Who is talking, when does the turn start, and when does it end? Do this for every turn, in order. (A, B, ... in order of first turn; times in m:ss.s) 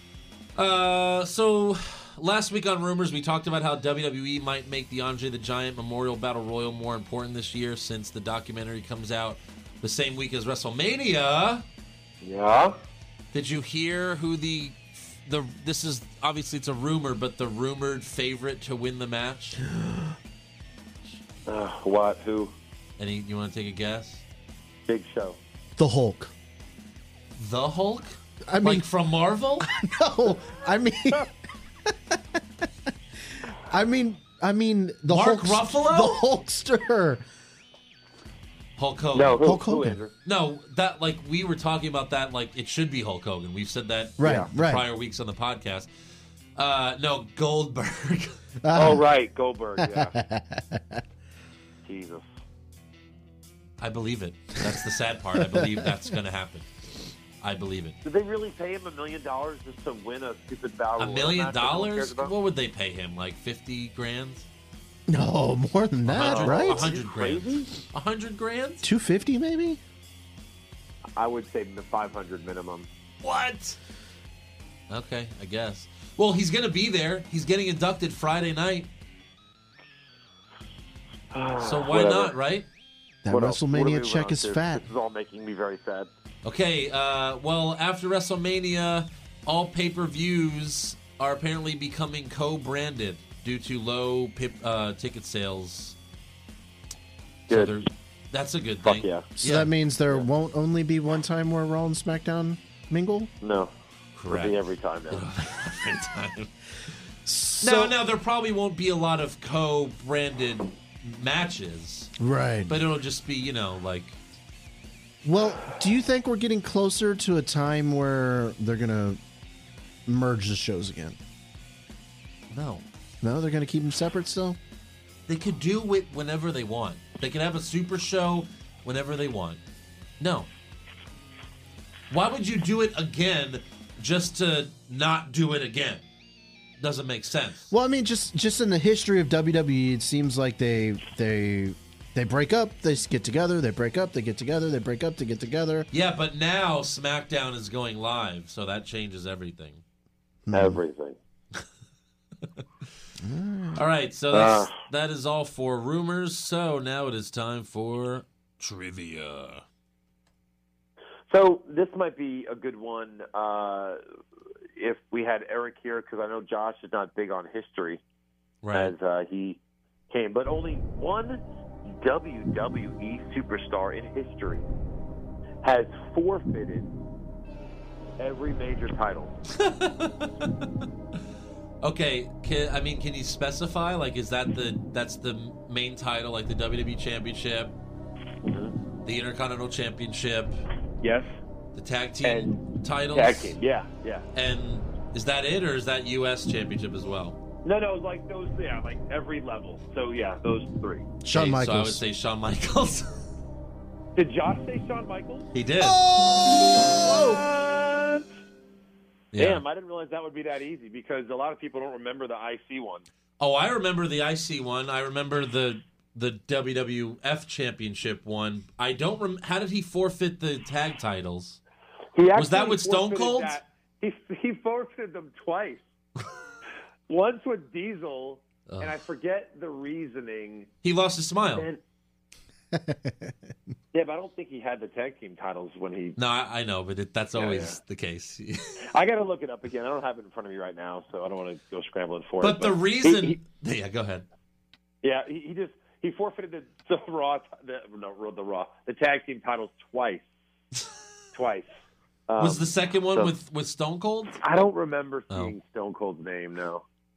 0:00.6-0:11.6 A
0:12.2-0:12.8 B
0:13.3-0:19.6 A
0:19.7-0:20.1 C
0:21.4-0:22.5 B
0:23.0-0:24.2 A
0:24.9-0:25.4 B
0:25.8-0:26.3 C
0:27.4-0:29.7 A
0:28.5-0:28.9 C
0:29.6-0:31.3 C
0:31.9-0:32.2 C
0:33.4-0:37.2 C
0:35.1-0:36.2 A
0:38.8-0:39.4 A
0:39.1-0:40.1 B
0:39.4-0:40.0 C
0:40.2-0:45.9 A
0:44.2-0:44.9 C
0:46.6-0:48.4 A
0:48.6-0:49.0 C
0:48.7-0:50.2 B
0:49.8-0:51.0 C
0:51.8-0:52.2 B
0:53.8-0:56.7 A
0:55.3-0:56.0 C
0:57.4-0:58.0 A
0:58.0-1:02.3 B
1:01.0-1:04.5 A
1:05.1-1:06.9 C
1:06.1-1:08.8 A
1:06.2-1:07.7 B
1:08.8-1:09.8 C
1:11.2-1:12.9 B
1:13.2-1:13.8 A
1:14.9-1:18.9 A
1:21.3-1:22.3 B
1:21.6-1:22.7 A
1:23.2-1:24.8 C
1:23.3-1:26.1 B
1:26.4-1:36.0 A
1:37.5-1:39.7 A
1:37.5-1:37.7 B
1:38.8-1:39.3 B
1:39.4-1:43.3 C
1:43.4-1:43.7 B
1:44.2-1:46.5 A
1:44.3-1:45.2 B
1:47.3-1:48.0 C
1:47.6-1:52.1 A
1:52.2-1:52.8 C
1:52.7-1:54.2 A
1:55.2-1:59.2 C
2:00.1-2:01.2 C
2:02.5-2:02.8 A
2:03.2-2:04.6 C
2:05.3-2:09.6 A
2:10.2-2:10.5 A
2:12.1-2:16.0 A
2:16.8-2:17.7 A
2:17.7-2:25.9 C
2:25.9-2:29.8 A
2:30.5-2:30.8 C
2:30.5-2:31.2 B
2:33.2-2:33.8 C
2:33.7-2:39.6 A
2:34.3-2:34.7 B
2:41.3-2:44.0 B
2:44.8-2:48.0 B
2:48.6-2:48.9 A
2:48.7-2:49.6 B
2:50.1-2:54.6 B
2:55.6-2:56.9 B
2:58.2-2:59.4 B
2:59.5-3:00.7 A
3:01.8-3:07.7 A
3:08.4-3:08.7 B
3:09.0-3:10.6 A
3:11.0-3:11.3 B
3:11.7-3:13.6 A
3:12.2-3:14.3 B
3:14.3-3:17.4 A
3:17.6-3:21.1 B
3:21.2-3:22.0 C
3:21.3-3:23.2 A
3:24.2-3:25.5 B
3:25.5-3:26.0 A
3:25.8-3:27.4 C
3:26.9-3:28.2 B
3:29.3-3:29.6 A
3:29.4-3:33.0 B
3:33.4-3:41.6 A
3:42.2-3:45.8 B
3:42.4-3:43.6 A
3:47.1-3:50.7 B
3:48.7-3:48.9 A
3:50.8-3:51.7 A
3:51.5-3:51.8 B
3:52.7-3:53.4 C
3:53.9-3:56.2 B
3:56.2-3:58.8 A
3:57.4-3:57.8 B
3:58.9-4:03.4 B
4:02.4-4:04.3 A
4:05.0-4:10.2 B
4:11.3-4:11.7 B
4:12.3-4:13.3 B
4:12.4-4:14.4 A
4:14.4-4:16.8 B